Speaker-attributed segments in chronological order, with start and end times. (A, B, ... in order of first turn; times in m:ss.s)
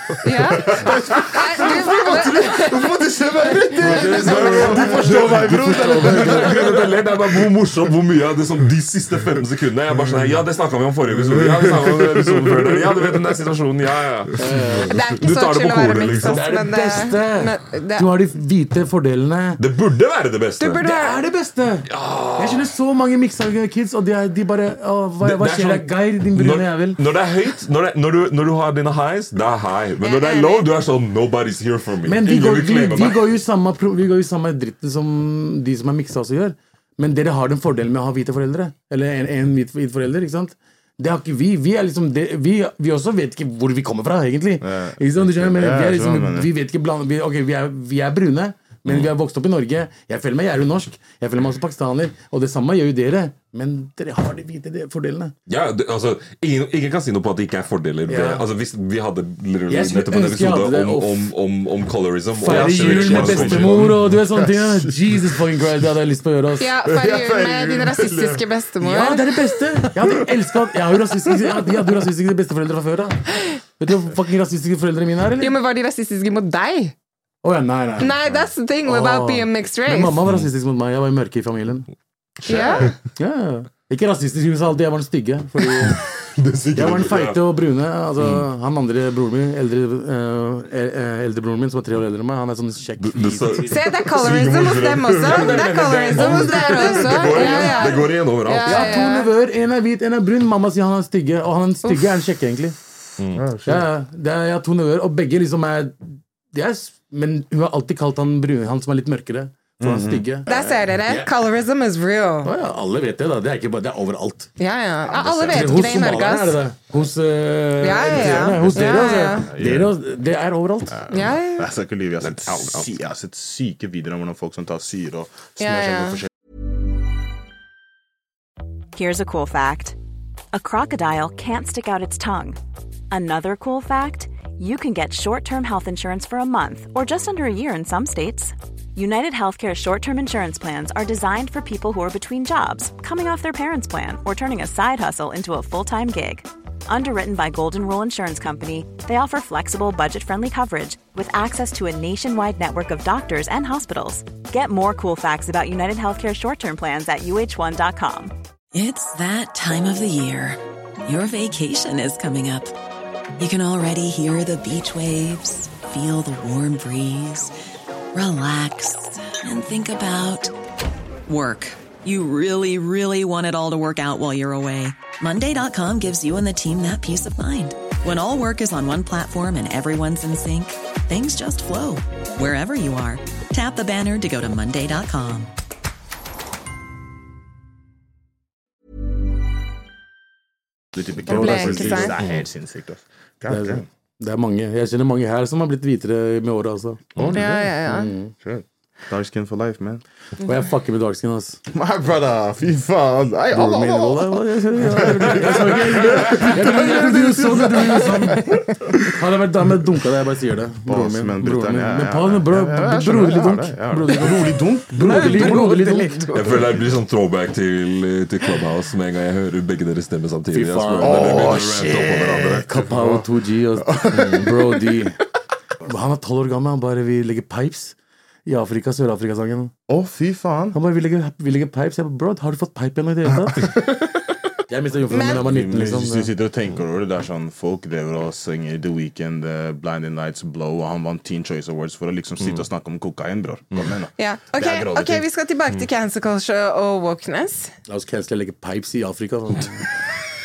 0:00.2-0:02.8 A
0:00.7-0:00.9 B
0:00.8-0:07.4 C
0:03.8-0:06.8 D
0:04.2-0:16.5 B
0:09.9-0:10.4 C
0:11.1-0:13.2 C
0:14.4-0:14.9 D
0:14.9-0:18.1 A
0:16.2-0:19.6 D
0:19.6-0:20.9 B
0:20.6-0:21.2 A
0:20.8-0:27.0 D
0:21.9-0:22.7 B
0:25.2-0:33.3 B
0:30.0-0:30.7 A
0:32.0-0:55.3 D
0:44.6-0:46.5 C
0:48.9-0:49.1 B
0:55.5-1:04.1 B
0:58.1-0:58.4 D
0:59.7-1:01.3 D
1:02.4-1:06.7 D
1:02.4-1:05.4 C
1:06.6-1:09.3 A
1:06.8-1:08.4 C
1:08.8-1:15.6 D
1:09.8-1:10.1 C
1:15.4-1:16.9 A
1:17.4-1:18.1 D
1:18.0-1:20.2 A
1:18.8-1:21.9 D
1:22.4-1:22.9 B
1:22.4-1:22.9 A
1:22.5-1:26.0 D
1:25.8-1:27.4 B
1:26.7-1:33.9 D
1:28.2-1:28.4 B
1:33.0-1:39.0 B
1:33.7-1:39.3 A
1:36.1-1:38.0 D
1:38.6-1:42.8 D
1:41.8-1:42.2 A
1:43.2-1:43.4 B
1:43.3-1:43.9 C
1:43.6-1:51.3 D
1:49.8-1:50.4 C
1:50.4-1:52.5 A
1:52.4-1:54.5 D
1:54.6-1:56.6 A
1:55.1-1:56.3 C
1:55.5-2:01.1 D
1:57.8-1:59.5 A
1:58.1-1:59.9 C
2:00.9-2:06.3 C
2:01.1-2:01.7 A
2:02.2-2:02.9 B
2:05.6-2:06.2 A
2:08.9-2:10.0 E
2:10.5-2:12.6 E
2:13.1-2:38.3 E
2:38.7-2:42.7 F
2:43.4-2:47.5 F
2:48.1-2:50.5 F
2:51.3-3:05.5 F
3:10.9-3:13.8 C
3:11.2-3:12.2 D
3:11.3-3:12.1 A
3:13.5-3:18.3 D
3:17.3-3:18.1 A
3:18.4-3:20.0 C
3:20.4-3:21.6 D
3:21.7-3:28.6 C
3:23.5-3:36.6 D
3:30.8-3:36.9 C
3:36.3-3:42.6 B
3:40.5-3:41.9 D
3:41.0-3:45.0 C
3:42.6-3:45.2 D
3:45.8-3:49.7 D
3:49.9-3:50.8 C
3:50.7-3:53.9 D
3:53.6-3:53.9 C
3:54.7-3:56.3 D
3:55.1-3:55.4 A
3:55.1-4:05.2 C
4:04.2-4:07.7 A
4:07.9-4:09.9 D